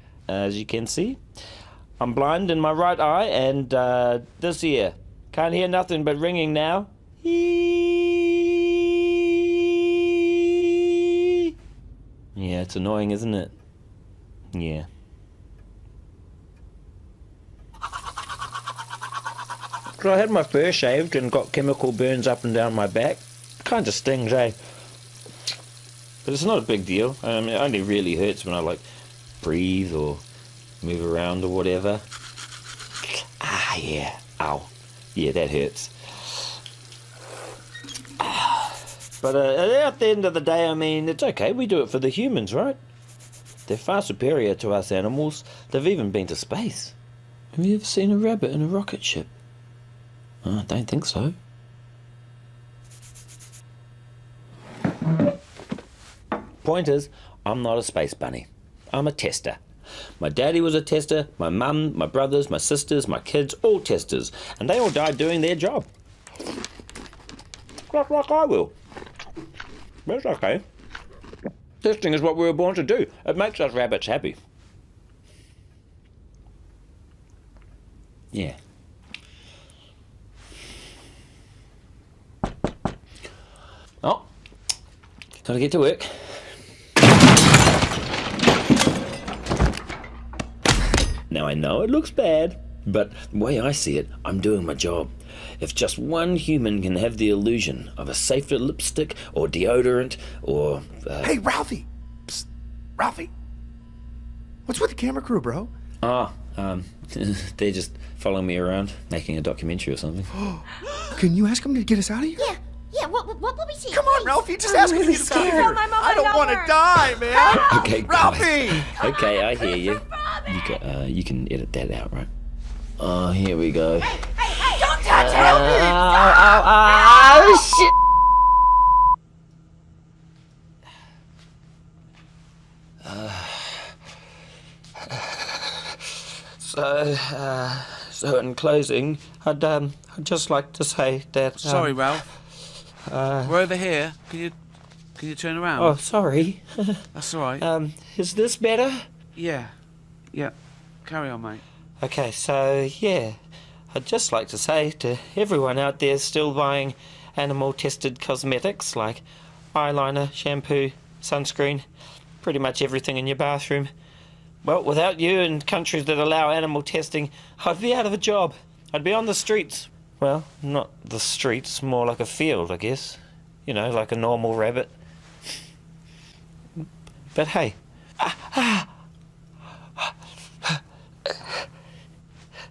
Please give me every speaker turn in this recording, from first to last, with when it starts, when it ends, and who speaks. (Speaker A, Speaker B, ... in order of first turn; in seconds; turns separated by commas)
Speaker A: 0.3-1.2, Speaker A: 2.0-11.5, Speaker A: 12.3-13.5, Speaker A: 14.5-14.9, Speaker A: 20.0-24.6, Speaker A: 26.2-28.8, Speaker A: 29.4-30.2, Speaker A: 30.8-32.0, Speaker A: 33.0-36.5, Speaker A: 38.2-42.8, Speaker A: 43.6-46.9, Speaker A: 47.5-49.3, Speaker A: 50.4-51.4, Speaker A: 56.6-59.6, Speaker A: 60.2-65.9, Speaker A: 67.9-68.7, Speaker A: 70.0-70.6, Speaker A: 71.8-74.4, Speaker A: 78.3-78.6, Speaker A: 84.0-84.3, Speaker A: 85.4-86.3, Speaker A: 91.3-101.4, Speaker B: 101.2-102.5, Speaker B: 103.0-103.3, Speaker B: 104.7-105.7, Speaker A: 106.0-110.5, Speaker B: 110.5-112.5, Speaker C: 112.4-116.8, Speaker B: 113.9-119.0, Speaker A: 115.0-115.7, Speaker C: 117.3-117.8, Speaker A: 117.5-122.3, Speaker A: 123.0-127.9, Speaker B: 125.0-126.1, Speaker A: 133.0-133.9, Speaker A: 135.1-136.0, Speaker A: 136.5-142.2, Speaker D: 141.6-142.2, Speaker A: 143.1-143.6, Speaker D: 143.4-144.5, Speaker D: 145.2-145.9, Speaker A: 145.8-147.1, Speaker D: 147.1-147.7, Speaker A: 147.6-149.1, Speaker D: 149.3-149.7, Speaker D: 150.3-151.6, Speaker A: 152.0-153.4, Speaker A: 153.9-161.8, Speaker A: 162.4-163.9, Speaker A: 164.6-174.9, Speaker A: 177.3-178.9